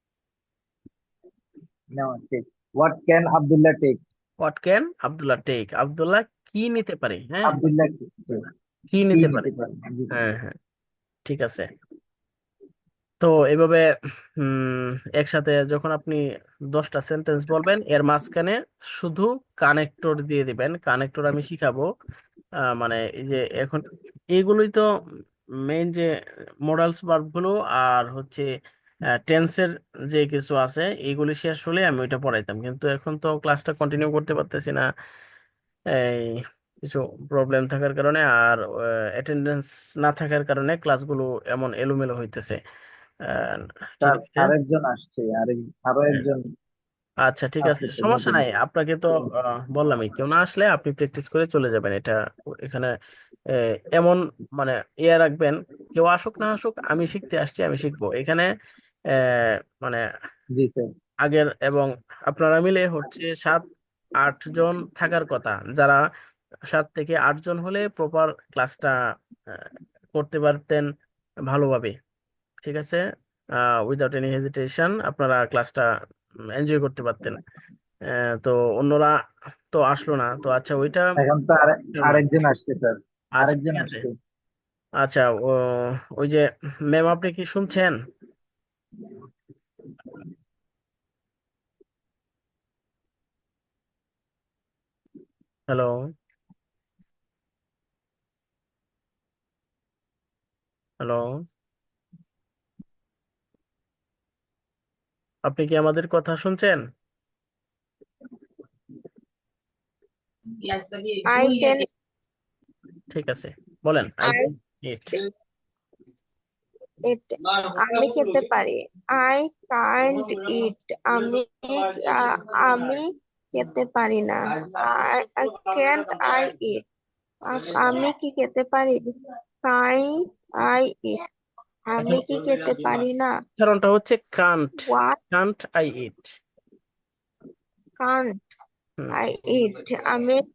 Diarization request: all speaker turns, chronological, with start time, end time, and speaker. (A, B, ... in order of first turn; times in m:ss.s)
0:01.9-0:04.0 A
0:04.4-0:07.6 B
0:07.4-0:08.4 A
0:08.9-0:09.5 B
0:09.1-0:10.1 A
0:10.1-0:10.6 B
0:11.2-0:11.6 B
0:13.2-0:13.9 B
0:14.4-0:16.2 B
0:16.7-0:21.9 B
0:22.7-0:24.9 B
0:25.6-0:26.1 B
0:26.6-0:28.4 B
0:29.1-0:34.9 B
0:35.9-0:38.6 B
0:39.2-0:42.6 B
0:43.3-0:44.5 B
0:44.0-0:46.4 A
0:47.2-0:52.9 B
0:47.6-0:48.4 A
0:53.9-0:58.5 B
0:59.2-1:00.0 B
1:00.6-1:00.9 A
1:01.2-1:03.6 B
1:04.2-1:06.0 B
1:06.7-1:08.9 B
1:09.5-1:10.9 B
1:11.5-1:11.9 B
1:12.6-1:13.0 B
1:13.6-1:15.9 B
1:16.6-1:17.4 B
1:18.1-1:19.1 B
1:19.7-1:21.2 B
1:21.2-1:24.1 A
1:21.9-1:22.2 B
1:23.3-1:24.0 B
1:25.0-1:28.0 B
1:41.0-1:41.3 B
1:45.4-1:46.8 B
1:51.3-1:51.9 C
1:53.1-1:55.2 B
1:54.2-1:54.5 C
1:57.0-2:06.8 C
2:07.5-2:09.1 C
2:09.6-2:11.3 C
2:11.9-2:13.3 C
2:13.6-2:16.3 B
2:14.9-2:15.2 C
2:18.0-2:18.4 C
2:19.1-2:20.4 C